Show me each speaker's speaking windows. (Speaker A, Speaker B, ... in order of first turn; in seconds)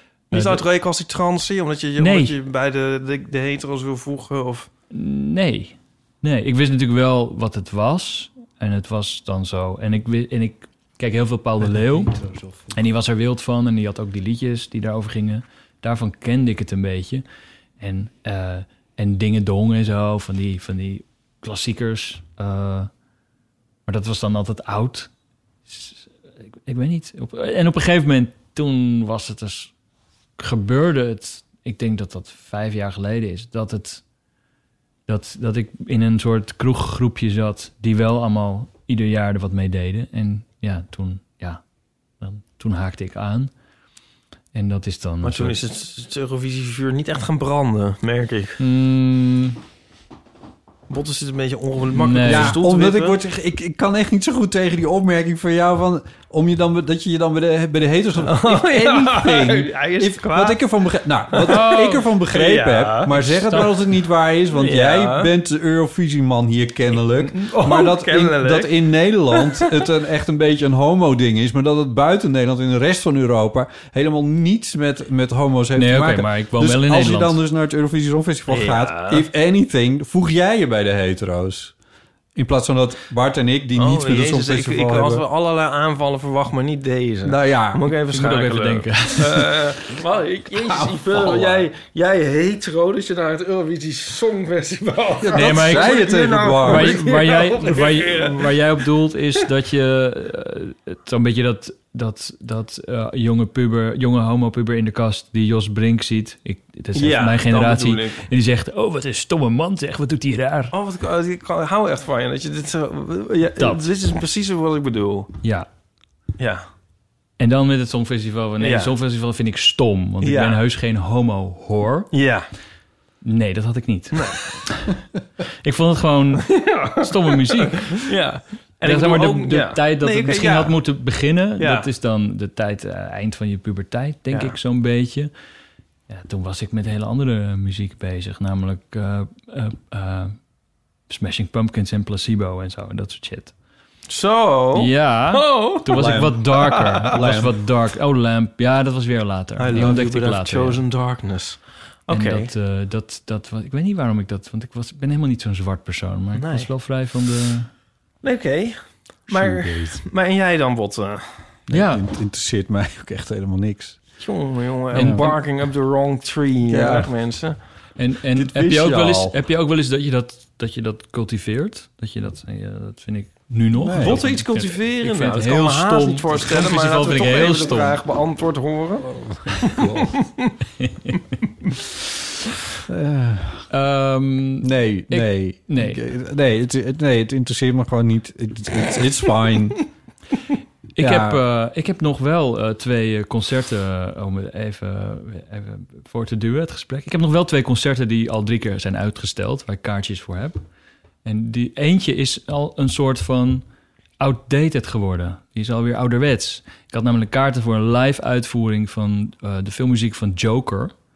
Speaker A: 0.3-0.6, 2.0-2.4, 4.9-12.2, 12.7-17.2, 17.8-22.9, 23.9-25.1, 25.7-29.7, 30.4-34.0, 35.1-41.6, 42.2-43.5, 44.5-45.6, 48.6-49.6, 51.9-52.6, 61.5-62.0, 63.1-63.7, 75.8-77.4, 88.1-89.7, 95.3-96.0, 96.6-110.7, 113.6-113.8, 117.4-122.1, 123.2-124.9, 125.6-128.1, 128.8-135.3, 136.1-140.4, 141.1-143.5, 144.7-150.8, 152.1-157.7, 161.7-162.0, 164.9-165.4, 168.0-178.0, 180.8-181.3, 183.7-186.0, 190.9-200.6, 201.2-203.6, 204.2-210.9
Speaker B: 0.3-4.7, 45.2-48.6, 50.9-53.2, 58.2-60.6, 61.3-63.7, 64.5-65.3, 67.2-69.8, 78.5-79.2, 83.8-98.6, 106.9-108.2, 110.7-115.3, 116.4-116.6, 118.6-118.9, 120.2-120.6, 122.1-122.5, 124.1-124.4, 126.5-130.8, 131.6-131.9, 134.3-134.6, 144.1-147.1, 149.6-152.5, 156.3-156.7, 158.2-161.2, 164.2-167.6, 174.0-180.5
Speaker C: 12.2-12.5, 52.2-81.7, 82.3-85.2, 87.2-87.8, 90.5-91.7, 95.2-97.0, 145.9-146.4, 147.0-147.6, 159.3-160.0, 161.7-164.0, 164.9-165.3, 166.7-167.1, 168.3-169.4, 173.8-174.2, 179.1-180.2, 182.9-183.7, 184.6-189.8, 191.0-191.4